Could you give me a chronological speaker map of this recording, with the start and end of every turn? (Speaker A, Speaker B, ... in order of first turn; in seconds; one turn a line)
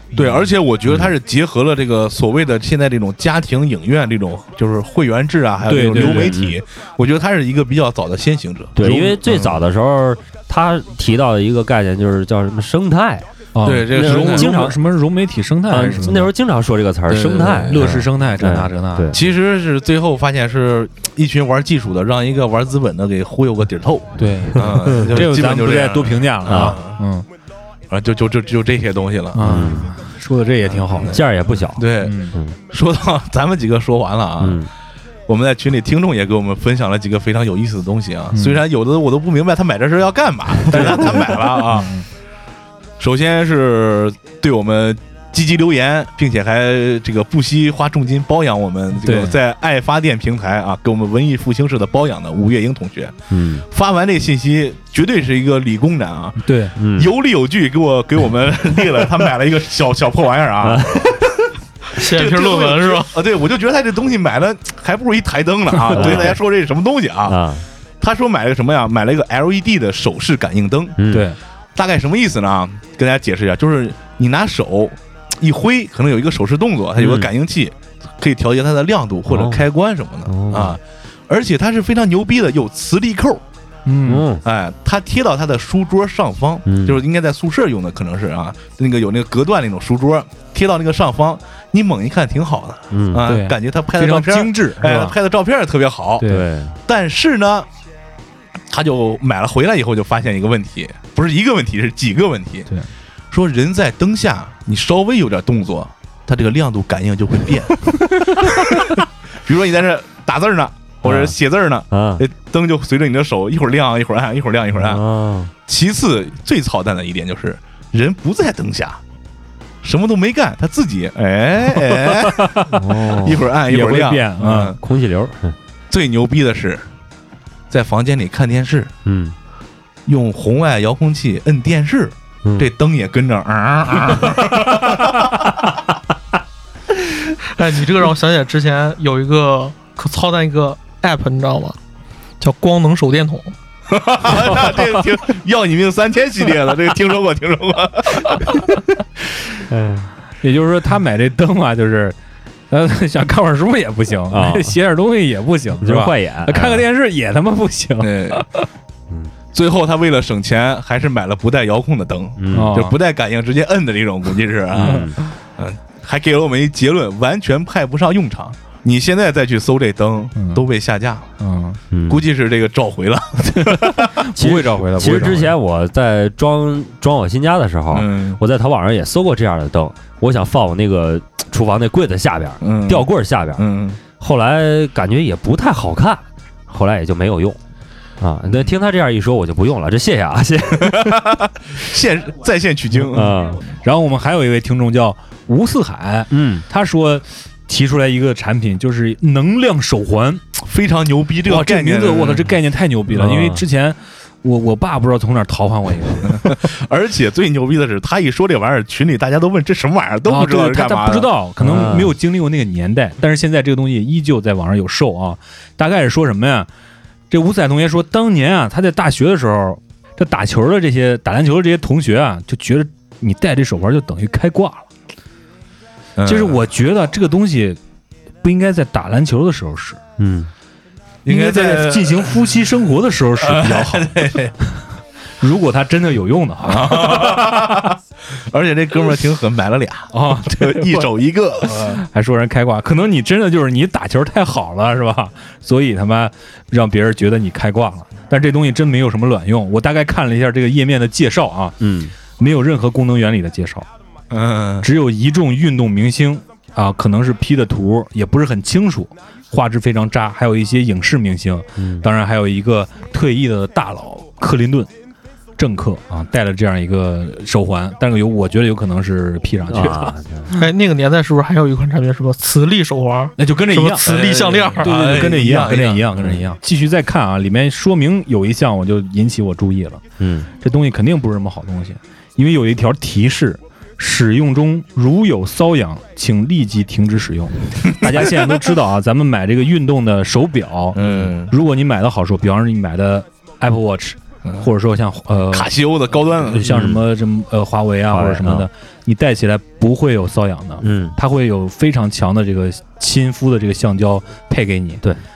Speaker A: 0.1-0.5
Speaker B: 0.1-9.7
Speaker A: 5.7-6.3
Speaker C: 5.9-6.6
Speaker C: 8.8-13.2
Speaker A: 8.8-9.2
Speaker A: 13.5-16.3
Speaker B: 13.6-14.6
Speaker C: 13.9-14.8
Speaker C: 15.7-19.2
Speaker B: 17.1-17.9
Speaker A: 17.4-19.1
Speaker B: 19.1-27.0
Speaker A: 24.2-27.2
Speaker C: 26.4-26.8
Speaker B: 27.9-29.7
Speaker A: 29.3-31.2
Speaker C: 29.4-29.9
Speaker B: 30.6-34.6
Speaker C: 31.1-32.5
Speaker A: 32.0-32.4
Speaker C: 34.4-34.7
Speaker B: 35.3-41.9
Speaker A: 38.3-38.6
Speaker A: 40.7-42.0
Speaker B: 43.0-61.3
Speaker A: 49.0-49.4
Speaker C: 53.3-53.6
Speaker A: 56.4-56.7
Speaker C: 56.8-57.1
Speaker C: 60.6-61.2
Speaker D: 61.9-63.1
Speaker B: 61.9-67.4
Speaker A: 65.8-66.3
Speaker C: 65.9-66.4
Speaker C: 67.3-67.7
Speaker B: 68.0-71.0
Speaker C: 71.0-71.3
Speaker A: 71.1-71.4
Speaker B: 71.8-83.4
Speaker C: 77.0-77.3
Speaker C: 79.3-79.6
Speaker C: 80.3-80.8
Speaker A: 83.8-84.2
Speaker C: 84.0-84.4
Speaker B: 84.4-96.3
Speaker C: 86.7-87.0
Speaker C: 92.9-93.2
Speaker A: 93.2-95.2
Speaker A: 96.2-96.5
Speaker C: 96.3-96.8
Speaker B: 96.8-97.7
Speaker B: 98.7-102.7
Speaker B: 103.3-115.0
Speaker C: 111.0-111.3
Speaker C: 111.9-112.2
Speaker C: 114.8-115.5
Speaker B: 115.7-119.0
Speaker B: 119.8-124.8
Speaker A: 122.1-122.8
Speaker C: 122.7-123.5
Speaker A: 123.7-124.8
Speaker C: 124.8-125.5
Speaker B: 125.9-126.8
Speaker B: 127.7-128.9
Speaker C: 129.0-129.3
Speaker B: 130.1-135.5
Speaker C: 132.4-132.7
Speaker D: 137.4-141.8
Speaker D: 142.4-143.5
Speaker B: 143.9-148.7
Speaker C: 149.7-150.1
Speaker A: 150.4-152.2
Speaker A: 152.7-158.7
Speaker C: 154.3-154.8
Speaker C: 155.8-156.8
Speaker B: 158.0-158.4
Speaker B: 159.5-171.3
Speaker C: 162.4-162.8
Speaker A: 162.5-162.9
Speaker C: 164.7-165.2
Speaker A: 170.3-170.6
Speaker A: 171.4-171.8
Speaker C: 171.9-172.2
Speaker B: 172.1-174.1
Speaker A: 173.5-175.5
Speaker C: 174.4-183.6
Speaker B: 177.9-178.4
Speaker B: 182.6-184.0
Speaker C: 184.2-187.6
Speaker C: 188.2-191.3
Speaker B: 190.8-193.5
Speaker C: 193.1-193.6
Speaker A: 193.8-200.4
Speaker C: 196.3-196.6
Speaker B: 200.5-202.5
Speaker A: 201.4-206.6
Speaker C: 203.1-203.6
Speaker B: 206.2-211.3
Speaker A: 210.2-216.7
Speaker C: 211.6-212.1
Speaker A: 217.3-224.9
Speaker B: 226.2-226.6
Speaker A: 226.2-227.8
Speaker A: 228.4-230.0
Speaker C: 230.2-230.5
Speaker B: 231.2-232.4
Speaker A: 231.3-234.3
Speaker B: 233.4-234.5
Speaker A: 235.4-237.9
Speaker B: 236.6-242.0
Speaker A: 240.1-241.1
Speaker A: 241.6-251.8
Speaker C: 251.8-252.1
Speaker A: 252.4-253.9
Speaker B: 254.3-254.9
Speaker A: 254.8-264.9
Speaker C: 261.8-262.1
Speaker A: 265.6-270.6
Speaker C: 269.7-270.5
Speaker D: 270.5-275.1
Speaker A: 273.4-274.1
Speaker B: 274.0-276.1
Speaker A: 274.8-280.0
Speaker C: 276.2-276.4
Speaker C: 280.2-280.5
Speaker A: 280.6-295.7
Speaker B: 290.9-291.5
Speaker B: 295.5-296.8
Speaker A: 296.4-305.0
Speaker C: 296.6-297.0
Speaker C: 298.1-298.7
Speaker C: 300.8-301.1